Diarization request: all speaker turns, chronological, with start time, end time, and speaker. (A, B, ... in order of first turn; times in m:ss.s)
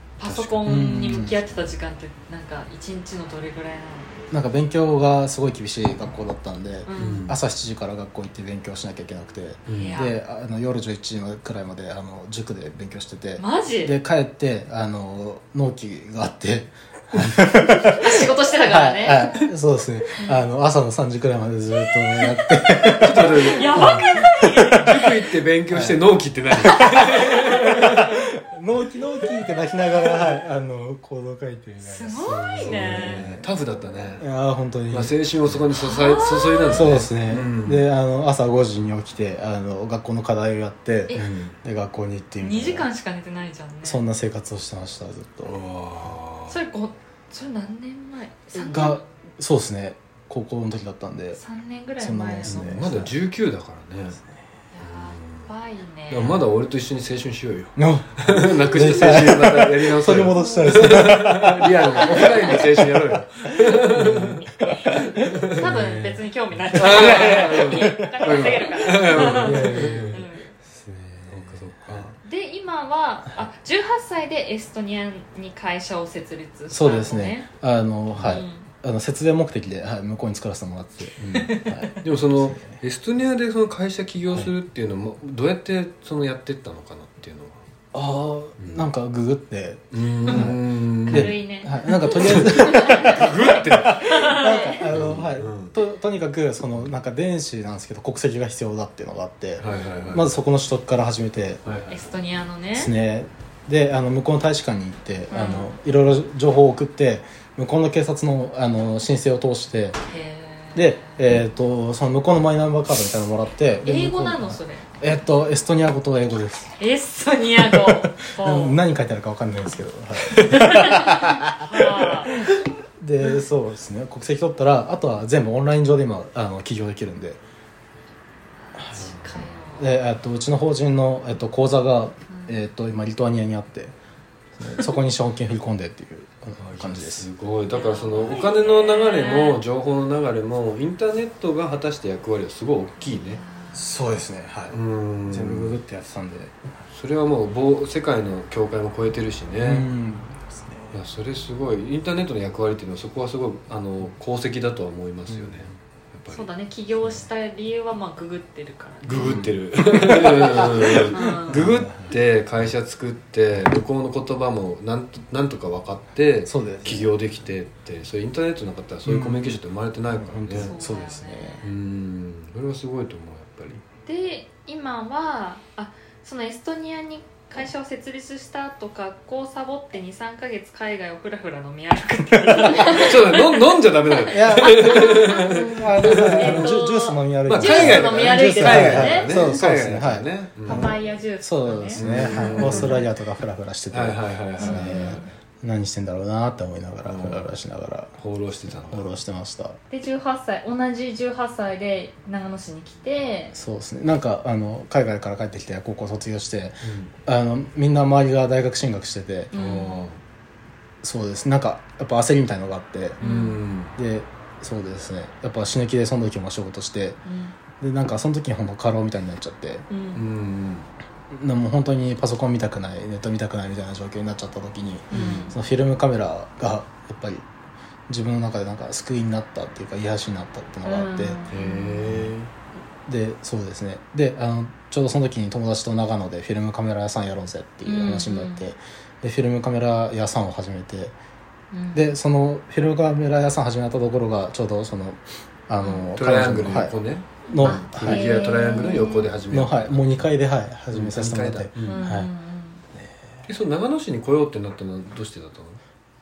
0:00.2-0:04.2 A
0:00.2-0:01.2 B
0:00.6-0:01.4 C
0:04.3-0:24.8 C
0:06.8-0:07.3 A
0:07.0-0:07.4 B
0:09.6-0:10.0 B
0:09.7-0:10.1 A
0:13.4-0:14.0 A
0:18.0-0:19.4 A
0:20.2-0:20.4 A
0:22.2-0:25.3 A
0:22.9-0:24.1 B
0:24.7-0:28.2 B
0:25.7-0:26.0 C
0:26.5-0:33.5 C
0:31.8-0:33.3 A
0:32.2-0:34.3 B
0:34.2-0:35.6 C
0:34.9-0:37.8 B
0:35.7-0:36.9 A
0:36.7-0:42.9 C
0:41.1-0:41.5 B
0:42.4-0:44.0 A
0:43.8-0:45.6 C
0:45.4-0:46.6 B
0:46.5-0:49.0 A
0:48.5-0:51.4 C
0:51.4-0:53.0 A
0:52.0-0:53.1 C
0:52.4-0:54.2 B
0:54.7-0:56.4 A
0:54.8-0:55.5 B
0:56.1-1:05.8 B
0:57.8-1:12.1 C
1:05.5-1:10.5 A
1:06.7-1:10.2 B
1:11.3-1:12.1 B
1:12.2-1:17.5 A
1:16.7-1:22.8 C
1:18.1-1:18.4 B
1:18.2-1:18.6 A
1:21.2-1:27.6 B
1:21.3-1:21.9 A
1:27.9-1:41.8 C
1:28.6-1:28.8 B
1:29.9-1:31.4 B
1:30.3-1:30.5 A
1:31.1-1:34.9 A
1:32.1-1:35.7 B
1:39.6-1:40.3 B
1:41.6-1:42.1 B
1:41.9-1:42.9 A
1:42.8-1:50.0 C
1:45.3-1:45.7 A
1:50.0-1:51.2 A
1:50.7-1:56.7 C
1:53.8-1:54.9 A
1:56.8-1:58.8 A
1:57.6-2:07.4 C
2:00.4-2:02.5 A
2:08.6-2:09.9 A
2:08.8-2:09.1 C
2:09.0-2:09.2 B
2:09.8-2:13.9 C
2:14.6-2:17.3 C
2:16.6-2:23.4 B
2:17.7-2:19.6 A
2:23.0-2:23.9 A
2:23.7-2:26.6 C
2:24.7-2:25.8 B
2:26.9-2:29.9 B
2:29.6-2:30.9 C
2:30.9-2:36.5 B
2:35.3-2:35.6 C
2:36.3-2:41.6 A
2:39.0-2:50.8 B
2:39.2-2:42.2 C
2:46.4-2:47.1 C
2:49.0-2:51.6 C
2:50.6-2:51.7 A
2:51.6-2:53.8 B
2:54.0-3:09.5 A
3:02.5-3:03.1 C
3:02.8-3:06.8 B
3:04.3-3:18.1 C
3:07.5-3:11.0 B
3:10.7-3:13.1 A
3:12.0-3:13.0 B
3:13.9-3:15.2 B
3:14.6-3:15.3 A
3:17.0-3:17.5 B
3:18.2-3:19.1 B
3:18.7-3:19.8 C
3:19.9-3:23.6 A
3:23.5-3:29.5 C
3:26.8-3:27.1 B
3:29.5-3:30.1 A
3:29.5-3:30.2 B
3:31.0-3:33.2 C
3:33.2-3:33.9 B
3:33.2-3:33.6 A
3:34.0-3:37.2 C
3:37.2-3:37.5 A
3:37.8-3:39.9 C
3:39.9-3:40.2 A
3:40.1-3:40.9 B
3:41.3-3:47.4 C
3:45.1-3:45.5 B
3:45.1-3:45.6 A
3:48.1-3:51.4 C
3:50.8-3:52.1 A
3:51.5-3:52.5 B
3:53.0-4:01.1 C
3:57.8-3:58.7 A
4:01.7-4:02.1 A
4:01.9-4:07.0 C
4:05.8-4:06.1 A
4:06.1-4:10.2 B
4:07.5-4:08.4 C
4:07.6-4:09.3 A
4:09.5-4:12.3 C
4:10.9-4:12.1 B
4:11.8-4:12.8 A
4:12.9-4:13.5 C
4:13.5-4:15.8 B